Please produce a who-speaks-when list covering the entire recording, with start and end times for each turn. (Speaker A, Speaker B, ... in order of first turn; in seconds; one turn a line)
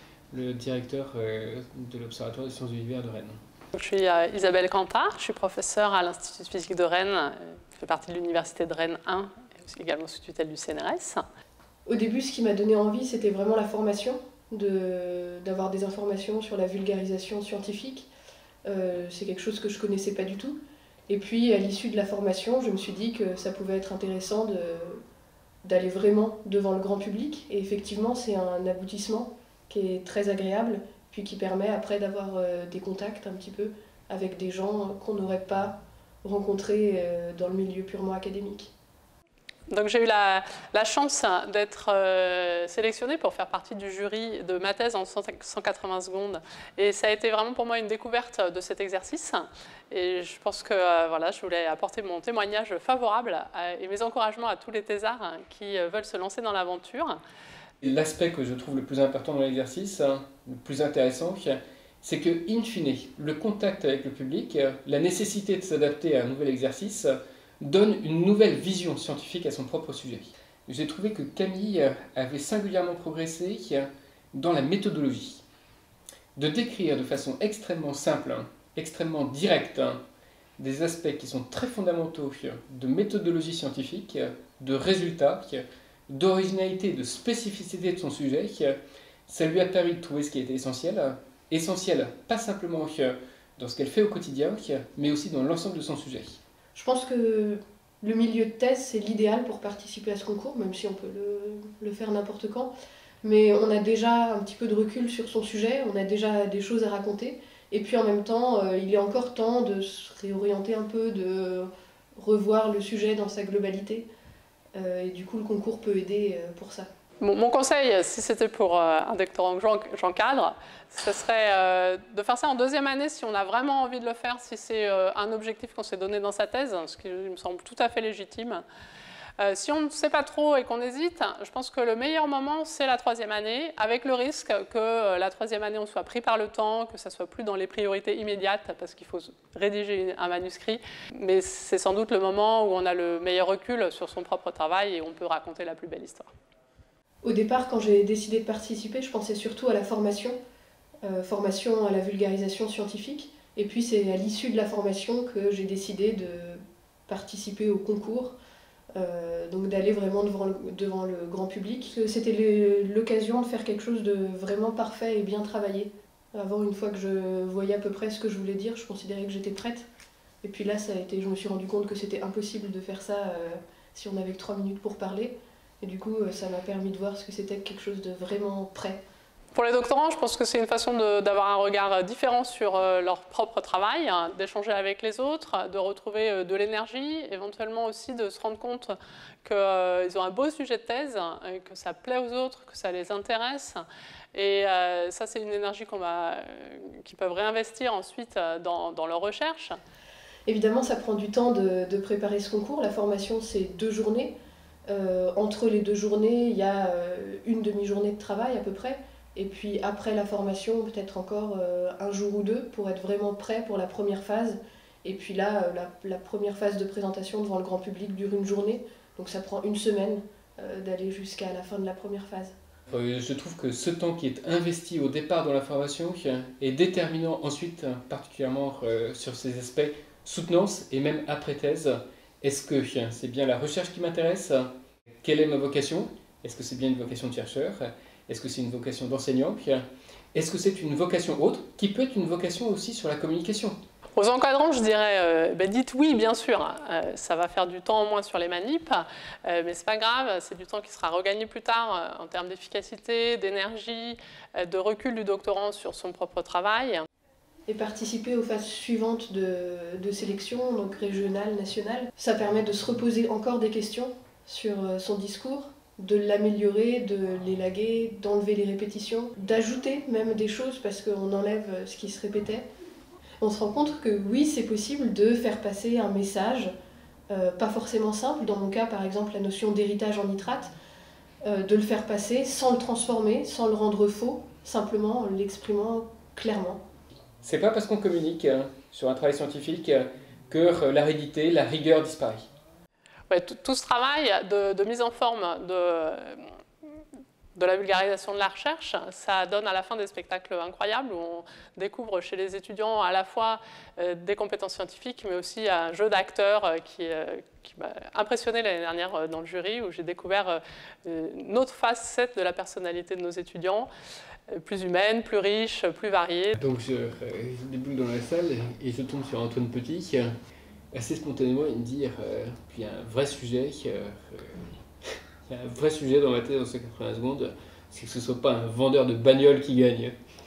Speaker A: 0.3-3.4
Speaker B: 3.7-11.2
Speaker C: 11.8-18.1
Speaker C: 18.6-25.0
Speaker C: 25.6-38.7
Speaker B: 39.7-57.2
Speaker A: 57.8-75.4
Speaker A: 76.3-80.0
Speaker A: 80.6-96.4
Speaker C: 96.7-102.7
Speaker C: 103.2-114.0
Speaker C: 114.7-116.9
Speaker B: 117.2-128.6
Speaker B: 129.4-146.3
Speaker C: 147.2-150.4
Speaker C: 151.0-158.3
Speaker C: 158.9-169.8
Speaker C: 170.4-179.0
Speaker B: 179.5-193.8
Speaker B: 194.3-199.8
Speaker C: 200.4-204.3
Speaker C: 204.9-222.5
Speaker A: 222.9-234.7
Speaker A: 235.2-243.8
Speaker B: 244.2-257.0
Speaker C: 257.7-272.7
Speaker C: 273.4-276.7
Speaker C: 277.3-280.7
Speaker C: 281.4-286.8
Speaker A: 287.4-292.4
Speaker B: 293.3-296.4
Speaker B: 297.5-313.9
Speaker B: 314.5-316.5
Speaker A: 316.5-320.3
Speaker A: 320.9-330.1